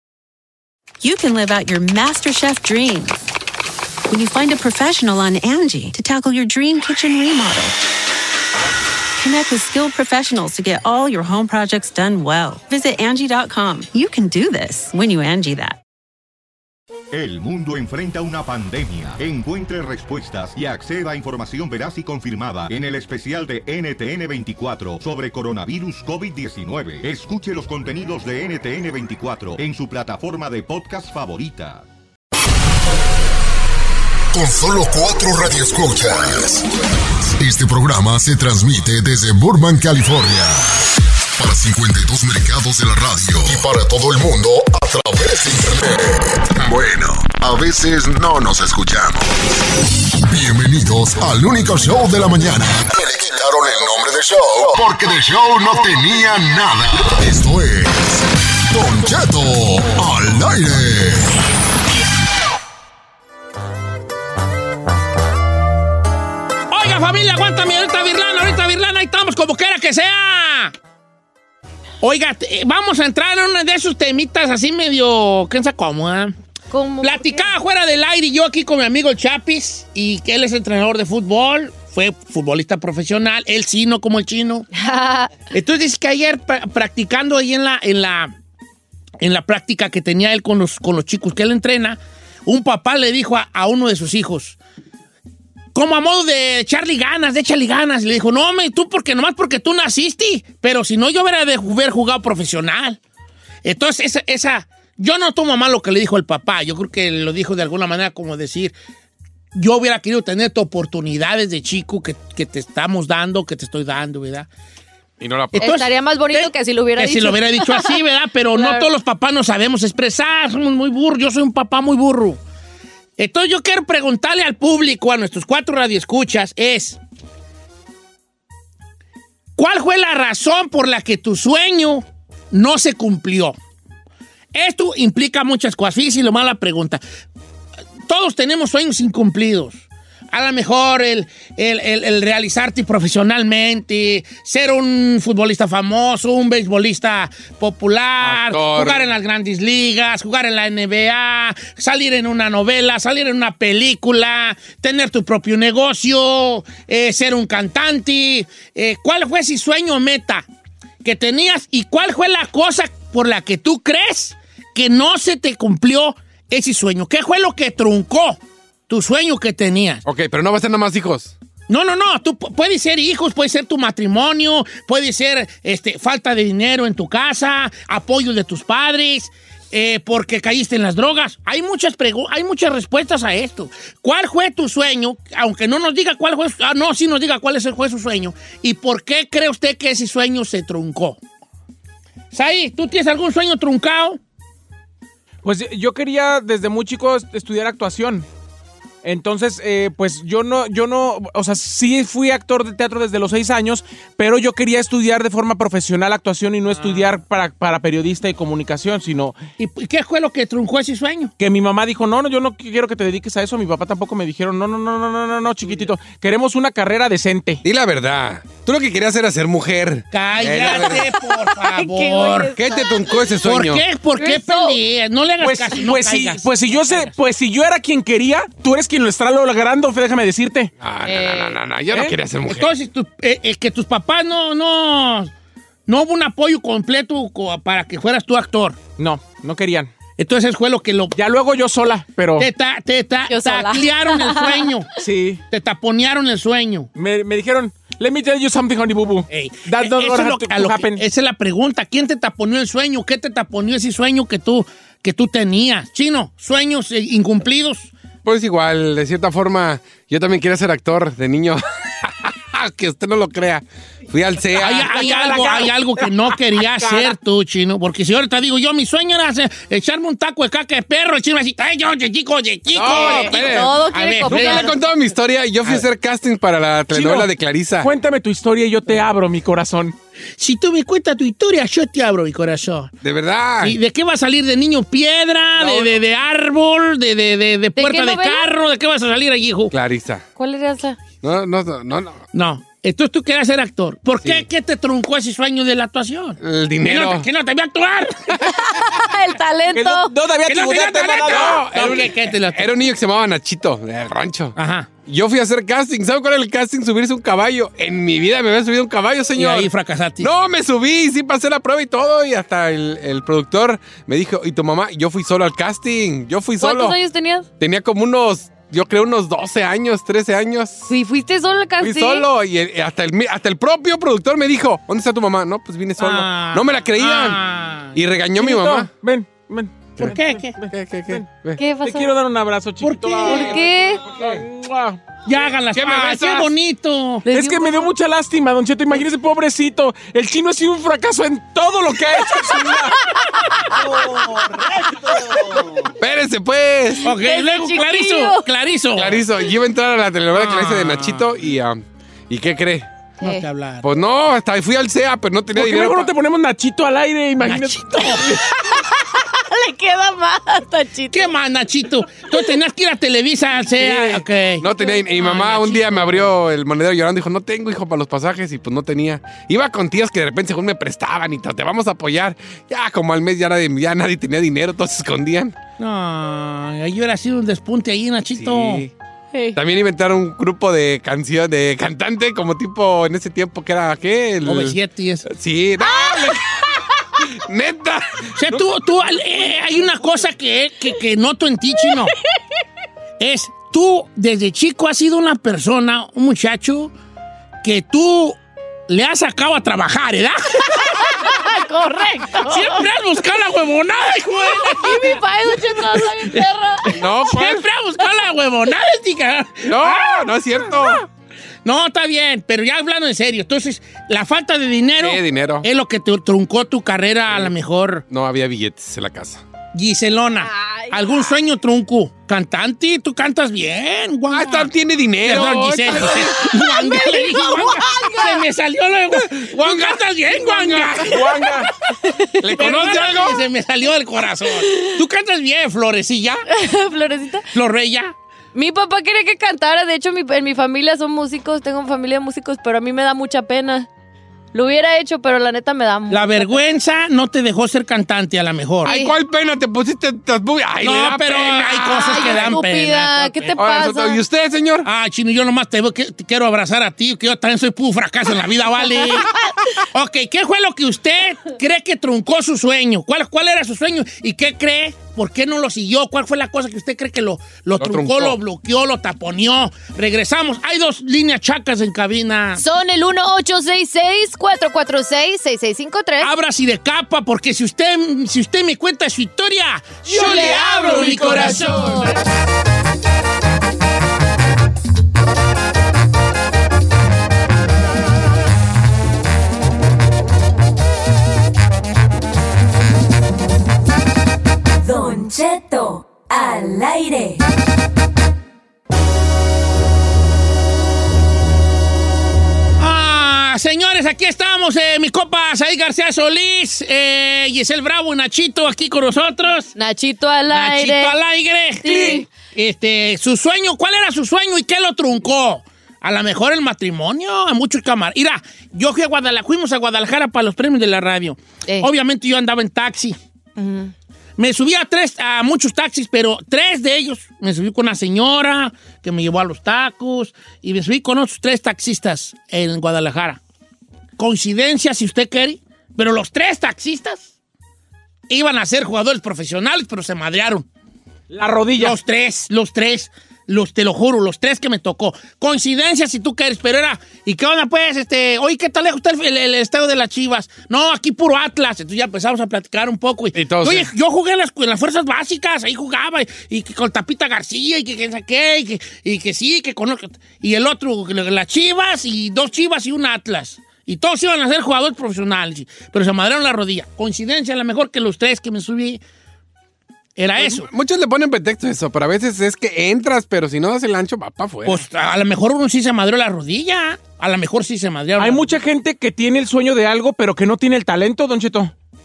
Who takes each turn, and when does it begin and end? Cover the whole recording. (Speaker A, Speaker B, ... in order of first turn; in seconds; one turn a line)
Speaker A: 1.0-3.3
Speaker A: 4.1-7.8
Speaker A: 9.2-15.8
Speaker B: 17.1-31.9
Speaker C: 34.3-36.7
Speaker C: 37.2-49.3
Speaker C: 50.2-61.3
Speaker D: 66.7-70.7
Speaker D: 72.0-76.3
Speaker E: 76.7-77.5
Speaker D: 77.0-84.7
Speaker E: 84.7-85.5
Speaker D: 85.5-88.3
Speaker D: 89.2-94.6
Speaker D: 95.7-103.0
Speaker D: 103.6-108.8
Speaker D: 109.5-114.5
Speaker F: 115.2-115.7
Speaker D: 115.5-122.4
Speaker E: 115.6-117.9
Speaker E: 118.5-118.9
Speaker D: 123.2-127.0
Speaker D: 129.6-133.6
Speaker D: 134.5-137.0
Speaker D: 138.1-160.5
Speaker F: 148.2-149.0
Speaker D: 161.0-168.4
Speaker D: 168.9-170.0
Speaker F: 170.1-171.3
Speaker D: 171.7-191.2
Speaker D: 192.3-194.2
Speaker G: 195.4-198.3
Speaker G: 199.0-209.4
Speaker D: 206.7-207.2
Speaker D: 209.6-211.3
Speaker G: 211.4-217.6
Speaker F: 217.6-221.1
Speaker D: 220.1-222.6
Speaker E: 221.5-222.9
Speaker F: 222.6-223.8
Speaker D: 223.4-227.1
Speaker E: 224.2-224.8
Speaker G: 225.4-230.7
Speaker F: 230.8-232.7
Speaker E: 231.0-231.6
Speaker D: 232.5-235.3
Speaker D: 235.9-238.8
Speaker G: 239.0-239.9
Speaker D: 240.2-241.1
Speaker G: 241.1-242.5
Speaker D: 242.4-246.9
Speaker E: 243.3-244.7
Speaker G: 245.0-245.4
Speaker G: 247.0-251.0
Speaker D: 249.3-257.9
Speaker F: 258.2-264.9
Speaker D: 264.6-274.8
Speaker G: 264.9-265.7
Speaker G: 266.6-267.2
Speaker F: 272.7-277.9
Speaker E: 272.8-274.7
Speaker G: 276.9-277.3
Speaker G: 277.8-280.0
Speaker D: 280.4-282.9
Speaker F: 283.0-283.8
Speaker D: 283.6-289.7
Speaker G: 285.6-285.9
Speaker E: 287.8-288.5
Speaker F: 289.7-290.2
Speaker E: 290.4-291.0
Speaker F: 291.2-292.2
Speaker D: 292.3-298.4
Speaker F: 296.4-297.3
Speaker E: 298.9-300.1
Speaker G: 299.7-301.9
Speaker D: 300.4-302.7
Speaker F: 301.2-309.7
Speaker D: 304.6-304.9
Speaker D: 309.4-310.3
Speaker F: 310.2-317.0
Speaker E: 316.6-317.5
Speaker F: 317.6-320.9
Speaker E: 320.9-322.3
Speaker F: 321.8-327.4
Speaker D: 326.0-327.9
Speaker F: 327.9-328.9
Speaker G: 328.4-331.3
Speaker D: 330.0-330.6
Speaker F: 330.7-331.6
Speaker E: 331.6-332.1
Speaker G: 331.8-335.0
Speaker D: 332.8-334.4
Speaker E: 333.3-334.0
Speaker D: 335.3-337.3
Speaker F: 335.7-336.5
Speaker E: 337.3-337.9
Speaker G: 337.3-343.0
Speaker D: 343.9-344.7
Speaker F: 346.0-347.1
Speaker D: 347.0-349.2
Speaker E: 347.1-348.4
Speaker F: 348.9-352.9
Speaker D: 350.3-351.2
Speaker E: 353.2-353.4
Speaker D: 353.2-353.9
Speaker F: 353.8-356.1
Speaker G: 355.6-358.4
Speaker D: 357.4-358.4
Speaker E: 359.1-361.3
Speaker D: 361.1-366.2
Speaker F: 363.8-375.6
Speaker D: 375.8-378.9
Speaker F: 378.4-378.9
Speaker F: 379.5-386.6
Speaker D: 384.4-385.3
Speaker E: 385.9-386.2
Speaker F: 387.2-389.2
Speaker D: 388.4-392.1
Speaker D: 393.2-396.9
Speaker D: 397.6-398.4
Speaker D: 398.9-401.1
Speaker E: 400.8-402.9
Speaker D: 402.3-405.2
Speaker E: 404.4-407.0
Speaker D: 406.9-410.3
Speaker F: 406.9-407.6
Speaker F: 409.6-411.0
Speaker D: 411.6-418.0
Speaker F: 415.0-415.7
Speaker F: 417.3-417.6
Speaker F: 418.1-419.4
Speaker D: 419.7-424.7
Speaker E: 420.4-421.4
Speaker F: 424.3-426.6
Speaker D: 425.2-431.4
Speaker E: 426.7-428.3
Speaker F: 429.4-431.1
Speaker G: 431.1-431.7
Speaker F: 432.4-433.4
Speaker D: 432.6-436.4
Speaker E: 436.5-437.5
Speaker D: 437.5-438.1
Speaker E: 438.5-443.9
Speaker E: 444.5-446.6
Speaker D: 446.1-448.9
Speaker E: 448.9-449.1
Speaker F: 448.9-452.5
Speaker D: 450.8-453.6
Speaker E: 452.0-454.2
Speaker F: 453.6-454.9
Speaker D: 454.8-459.3
Speaker E: 459.0-459.3
Speaker D: 459.9-472.6
Speaker F: 467.8-468.4
Speaker E: 472.6-476.3
Speaker D: 476.2-482.2
Speaker G: 480.1-482.1
Speaker E: 480.2-480.6
Speaker H: 494.8-497.4
Speaker D: 502.8-509.7
Speaker E: 509.8-511.2
Speaker D: 510.5-523.2
Speaker E: 511.8-512.3
Speaker E: 523.6-523.9
Speaker D: 524.4-533.4
Speaker D: 534.2-537.3
Speaker D: 538.3-540.7
Speaker G: 541.3-542.0
Speaker D: 541.8-569.0
Speaker F: 553.3-553.9
Speaker D: 570.2-570.7
Speaker F: 570.4-574.9
Speaker D: 574.6-578.5
Speaker G: 578.2-581.7